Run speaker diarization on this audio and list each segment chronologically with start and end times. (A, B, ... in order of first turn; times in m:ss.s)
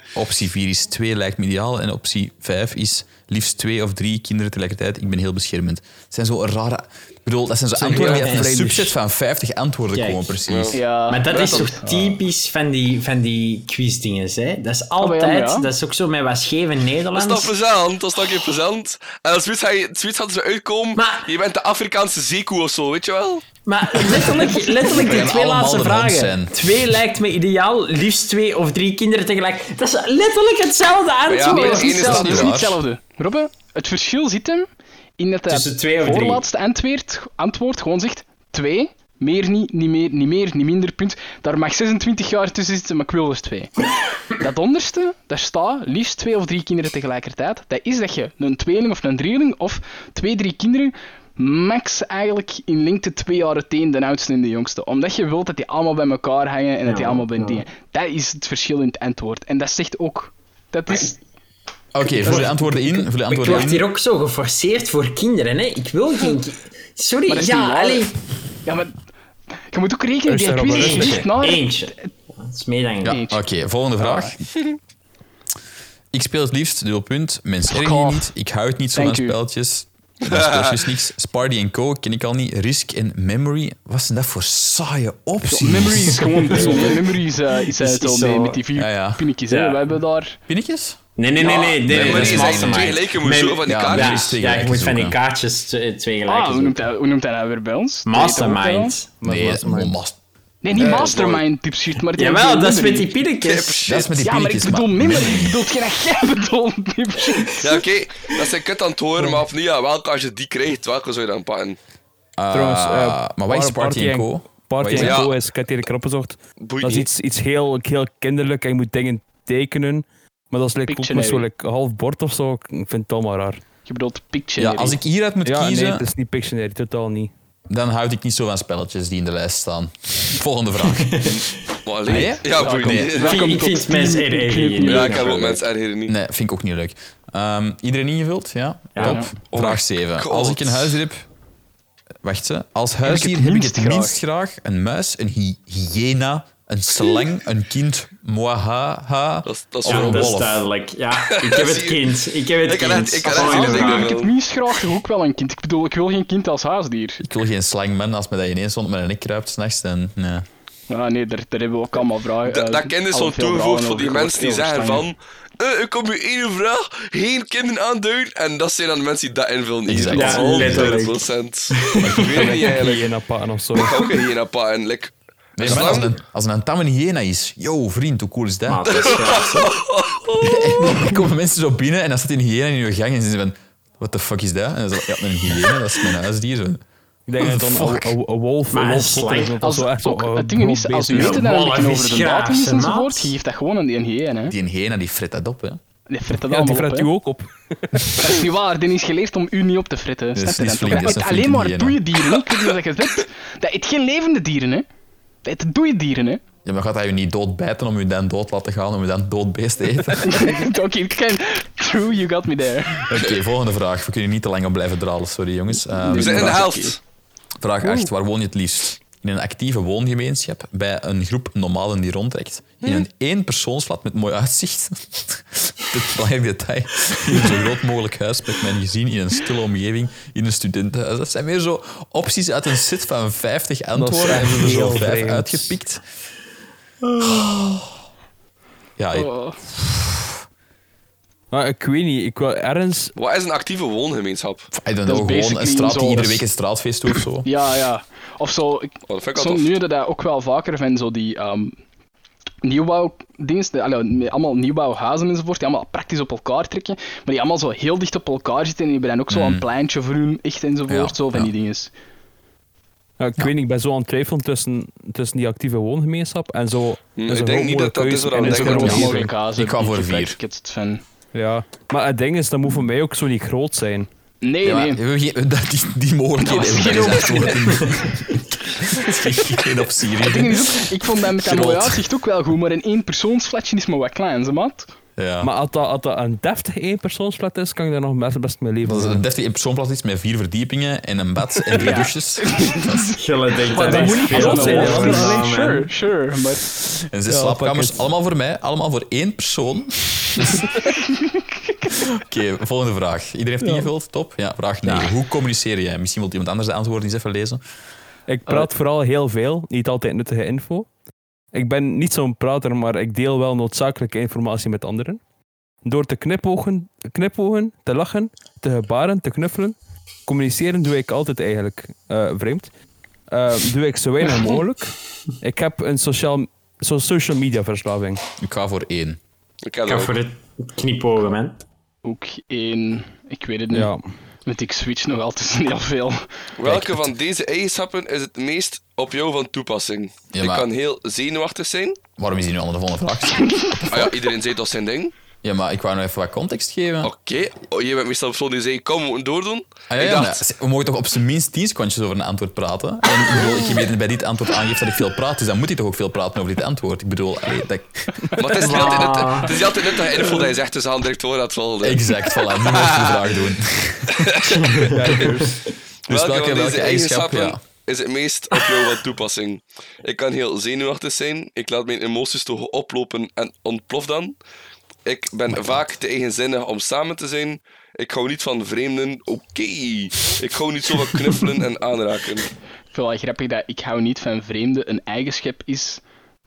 0:00.1-0:10.8 A
0:07.8-0:08.9 B
0:07.9-0:08.6 C
0:08.0-0:08.2 D
0:09.9-0:10.4 C
0:10.5-0:11.7 D
0:10.7-0:12.2 E
0:11.1-0:17.6 C
0:15.0-0:15.7 E
0:17.2-0:23.5 D
0:21.0-0:21.3 C
0:23.6-0:32.2 C
0:24.8-0:27.0 A
0:31.3-0:32.5 D
0:31.4-0:43.7 E
0:32.0-0:32.8 A
0:35.5-0:36.4 C
0:44.4-1:01.2 E
0:56.8-0:57.6 C
1:01.9-1:03.9 A
1:02.1-1:08.2 C
1:07.3-1:08.1 E
1:08.6-1:09.0 E
1:09.7-1:12.0 E
1:10.3-1:11.3 B
1:10.7-1:13.2 C
1:13.0-1:14.4 A
1:13.1-1:13.4 E
1:14.0-1:14.4 E
1:16.1-1:26.8 A
1:17.7-1:18.3 E
1:18.9-1:19.4 E
1:20.3-1:20.8 D
1:25.5-1:30.4 E
1:26.1-1:28.6 C
1:28.8-1:29.2 A
1:29.5-1:29.9 C
1:30.5-1:31.0 A
1:31.2-1:36.8 C
1:31.4-1:34.4 D
1:31.8-1:33.0 A
1:33.7-1:35.2 A
1:36.3-1:39.0 E
1:38.1-1:39.2 C
1:39.2-1:39.9 B
1:39.2-1:40.2 A
1:40.6-1:43.2 E
1:40.8-1:41.4 D
1:40.8-1:41.1 C
1:42.1-1:43.9 C
1:43.4-1:44.1 D
1:43.9-1:45.7 A
1:44.1-1:47.8 E
1:47.6-1:51.8 D
1:52.4-1:55.2 A
1:52.5-2:03.6 B
1:55.0-1:55.3 D
1:56.6-1:57.1 D
2:00.9-2:01.5 E
2:03.9-2:05.0 E
2:04.6-2:06.1 A
2:05.4-2:07.3 B
2:07.7-2:11.2 A
2:10.9-2:11.4 C
2:11.2-2:13.5 D
2:12.1-2:13.2 A
2:12.5-2:15.4 E
2:13.2-2:15.6 C
2:14.8-2:16.1 D
2:16.1-2:21.2 A
2:19.0-2:19.2 C
2:19.0-2:19.3 E
2:19.5-2:21.0 D
2:22.2-2:30.6 A
2:23.0-2:24.2 E
2:29.4-2:30.4 D
2:29.9-2:34.1 C
2:31.3-2:34.3 D
2:33.2-2:37.2 E
2:37.2-2:40.5 A
2:40.9-2:45.1 E
2:42.5-2:53.1 D
2:49.9-2:51.0 A
2:50.1-2:51.2 C
2:51.8-2:52.4 C
2:52.1-2:54.1 B
2:53.8-2:56.1 D
2:55.6-2:59.1 A
2:55.6-2:56.0 B
2:58.7-2:59.8 C
2:58.9-3:01.0 D
3:00.4-3:06.8 A
3:07.3-3:11.4 B
3:07.4-3:08.2 A
3:08.7-3:09.6 C
3:09.6-3:14.6 E
3:11.1-3:13.4 C
3:14.5-3:15.8 A
3:16.1-3:17.1 E
3:16.4-3:18.4 B
3:18.2-3:24.9 E
3:20.4-3:22.0 A
3:25.4-3:26.4 E
3:26.6-3:30.6 A
3:30.2-3:33.1 E
3:33.1-3:36.8 A
3:35.9-3:37.0 E
3:36.1-3:37.0 D
3:37.6-3:56.0 A
3:54.0-3:55.8 B
3:57.0-3:57.6 C
3:57.2-3:57.8 A
3:59.0-4:00.3 A
3:59.1-3:59.6 E
4:01.5-4:03.1 B
4:03.2-4:04.7 D
4:04.7-4:07.5 A
4:05.1-4:06.4 E
4:07.4-4:11.8 E
4:09.1-4:09.7 D
4:12.6-4:21.9 E
4:19.3-4:19.7 A
4:20.9-4:21.5 A
4:23.2-4:29.3 B
4:27.2-4:29.2 D
4:28.4-4:31.0 E
4:29.6-4:30.4 A
4:31.3-4:34.1 B
4:34.4-4:35.0 E
4:34.6-4:42.0 A
4:36.4-4:37.9 E
4:40.2-4:44.9 E
4:45.2-4:45.5 A
4:45.4-4:49.2 B
4:48.8-4:53.0 A
4:51.7-4:56.6 E
4:51.8-4:52.0 B
4:53.2-4:55.9 C
4:53.7-4:55.5 B
4:56.9-5:00.7 A
4:57.3-4:58.0 B
5:01.9-5:07.6 A
5:03.6-5:03.9 B
5:04.9-5:05.1 C
5:08.3-5:10.9 B
5:11.5-5:15.2 B
5:15.8-5:19.8 B
5:20.3-5:22.7 B
5:23.3-5:28.2 B
5:28.4-5:29.2 A
5:29.6-5:30.2 D
5:29.9-5:31.6 C
5:32.0-5:33.9 E
5:33.7-5:34.0 B
5:34.5-5:36.3 E
5:36.6-5:42.0 D
5:36.6-5:37.1 A
5:40.3-5:40.7 A
5:42.2-5:44.1 A
5:43.9-5:45.1 D
5:45.4-5:47.1 A
5:47.0-5:50.4 D
5:49.9-5:58.2 A
5:58.4-6:03.2 D
5:58.5-5:59.6 C
6:01.8-6:04.6 A
6:04.1-6:05.0 D
6:04.7-6:05.2 C
6:04.9-6:05.6 B
6:06.1-6:07.6 A
6:06.1-6:14.4 D
6:15.1-6:22.5 D
6:22.9-6:26.0 E